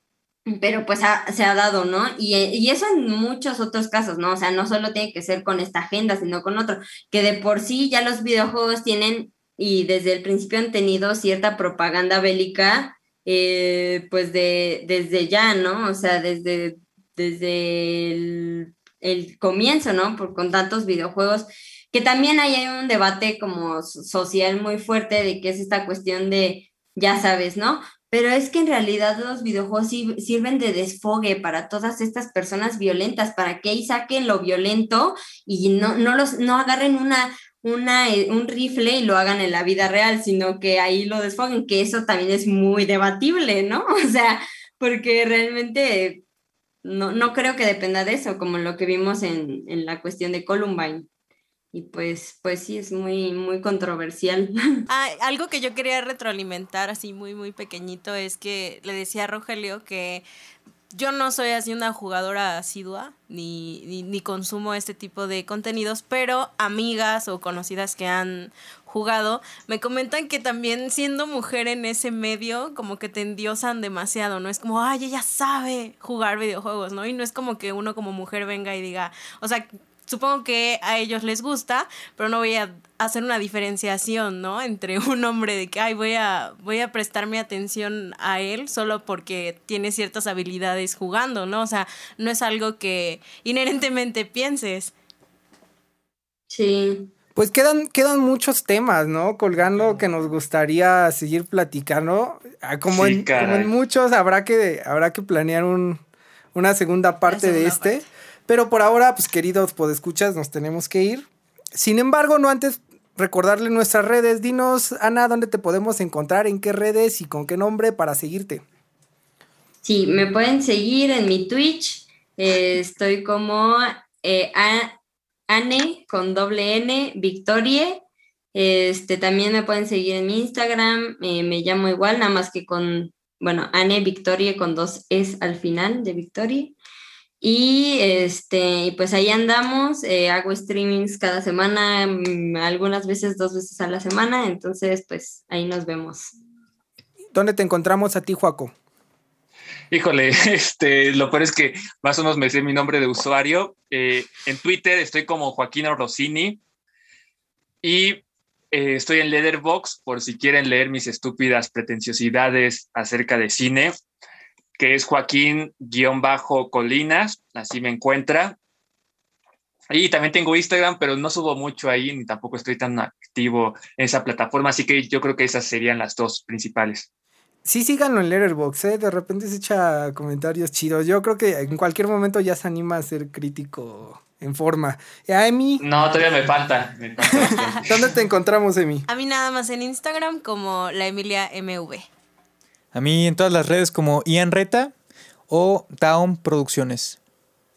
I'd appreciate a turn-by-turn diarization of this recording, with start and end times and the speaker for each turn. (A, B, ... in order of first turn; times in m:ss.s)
0:00.5-0:46.2 A
0:46.8-0:51.1 A
0:51.7-0:54.8 A
0:54.9-1:00.2 B
1:00.9-1:34.9 B
1:36.5-1:37.1 A
1:37.4-1:46.0 C
1:42.9-1:43.7 D
1:46.5-1:58.6 C
1:47.2-1:48.1 B
1:59.8-2:04.9 A
2:05.5-2:08.0 A
2:08.5-2:16.8 A
2:17.4-2:26.4 A
2:27.3-2:28.7 C
2:29.9-2:36.6 D
2:37.8-2:43.9 D
2:44.8-2:48.6 D
2:49.9-2:57.0 D
2:57.6-3:05.8 C
3:05.8-3:08.0 D
3:07.4-3:09.0 C
3:09.1-3:12.1 B
3:12.9-3:14.9 E
3:15.5-3:17.2 E